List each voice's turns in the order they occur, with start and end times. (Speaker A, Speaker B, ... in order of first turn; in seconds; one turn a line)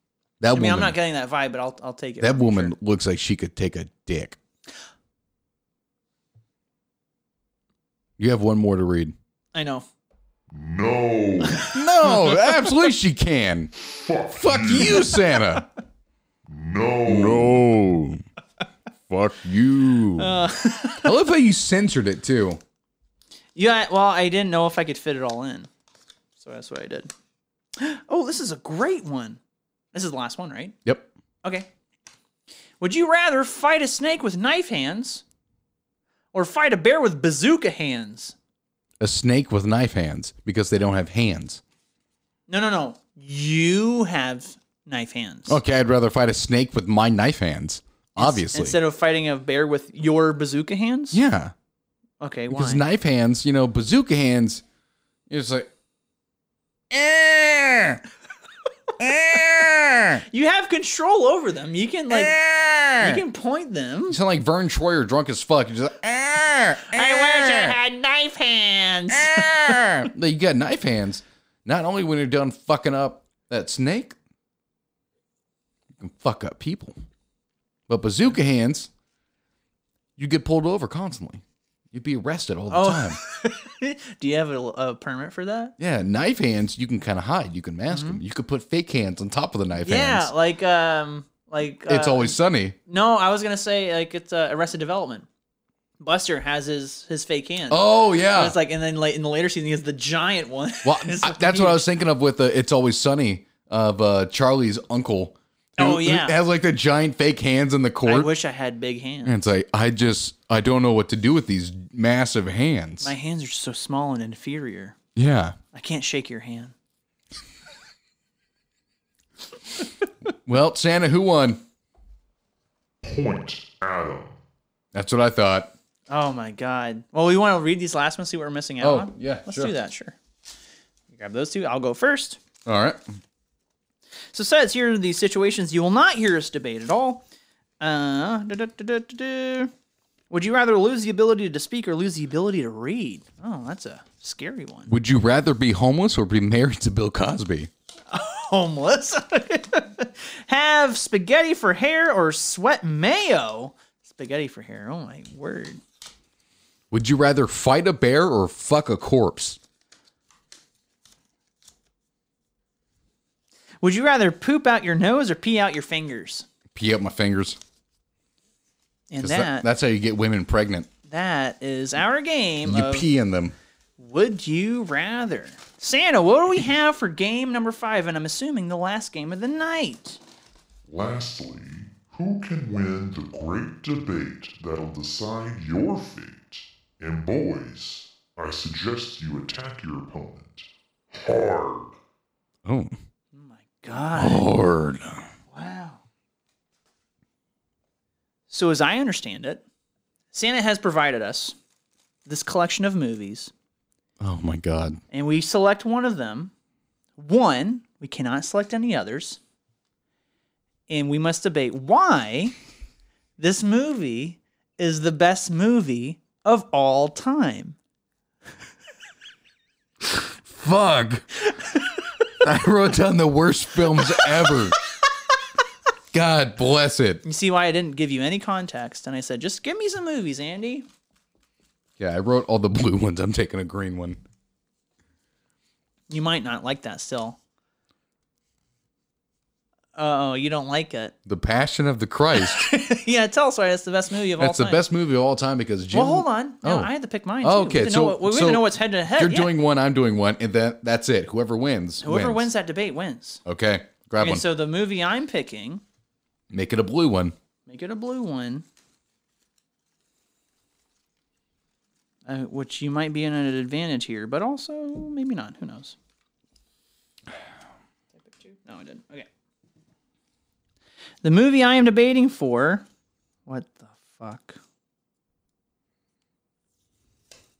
Speaker A: 0.4-0.9
Speaker B: 0.5-2.7
Speaker A: 2.2-4.4
Speaker A: 8.2-9.2
Speaker B: 9.5-9.9
Speaker C: 10.5-11.8
Speaker B: 11.6-12.7
Speaker A: 11.7-13.7
Speaker C: 13.8-15.2
Speaker A: 14.3-15.7
Speaker C: 16.5-17.6
Speaker A: 17.1-18.2
Speaker A: 19.1-20.4
Speaker B: 20.2-21.1
Speaker A: 21.1-22.6
Speaker B: 23.6-25.7
Speaker B: 26.4-27.1
Speaker B: 27.8-29.4
Speaker B: 29.9-30.8
Speaker B: 31.4-31.7
Speaker B: 32.8-35.2
Speaker B: 36.3-38.4
Speaker A: 39.0-41.6
Speaker B: 42.5-45.6
Speaker A: 45.5-48.8
Speaker B: 48.2-51.2
Speaker A: 51.1-51.5
Speaker B: 52.2-52.8
Speaker A: 52.5-54.6
Speaker A: 55.3-55.7
Speaker A: 56.9-58.0
Speaker A: 59.0-60.2
Speaker B: 60.2-62.4
Speaker A: 62.1-63.2
Speaker B: 63.0-64.2
Speaker A: 64.1-67.8
Speaker B: 66.8-70.0
Speaker A: 69.1-74.2
Speaker A: 76.0-77.0
Speaker A: 77.9-78.9
Speaker A: 80.2-83.2
Speaker B: 82.7-85.8
Speaker A: 85.8-90.3
Speaker B: 87.9-88.2
Speaker B: 89.8-95.3
Speaker A: 91.9-92.8
Speaker B: 96.0-101.8
Speaker A: 97.7-98.6
Speaker A: 100.8-108.3
Speaker B: 105.8-106.4
Speaker B: 108.0-109.4
Speaker A: 109.2-113.1
Speaker B: 113.0-115.0
Speaker A: 115.2-115.6
Speaker B: 115.7-116.7
Speaker A: 120.5-121.6
Speaker C: 123.0-124.4
Speaker A: 124.9-125.7
Speaker B: 126.1-130.2
Speaker A: 128.8-129.7
Speaker B: 131.1-132.4
Speaker A: 132.7-133.0
Speaker B: 134.3-137.2
Speaker B: 137.8-139.7
Speaker B: 140.3-144.9
Speaker A: 144.9-147.7
Speaker B: 148.1-155.8
Speaker A: 156.9-159.6
Speaker B: 163.8-166.5
Speaker A: 166.7-167.6
Speaker B: 169.1-169.7
Speaker A: 169.2-170.9
Speaker B: 171.1-173.1
Speaker A: 172.7-173.6
Speaker B: 174.0-180.2
Speaker C: 180.9-192.0
Speaker A: 192.7-192.9
Speaker B: 193.3-194.5
Speaker A: 194.2-195.3
Speaker B: 195.5-196.0
Speaker B: 198.5-199.6
Speaker B: 200.3-201.6
Speaker B: 202.3-203.5
Speaker A: 204.2-205.0
Speaker B: 205.1-206.5
Speaker B: 207.2-209.4
Speaker B: 210.9-212.5
Speaker B: 213.4-217.8
Speaker A: 220.1-221.3
Speaker A: 222.4-224.8
Speaker A: 226.1-227.2
Speaker B: 227.2-230.9
Speaker A: 232.0-234.2
Speaker B: 236.1-237.4
Speaker B: 239.9-241.1
Speaker A: 241.3-242.7
Speaker B: 242.3-244.8
Speaker A: 244.4-252.5
Speaker B: 245.9-249.5
Speaker B: 252.0-253.4
Speaker A: 253.4-254.4
Speaker B: 254.2-255.8
Speaker A: 256.5-257.4
Speaker B: 257.7-258.6
Speaker B: 262.3-266.0
Speaker B: 268.2-269.3
Speaker B: 271.2-272.9
Speaker B: 273.5-274.6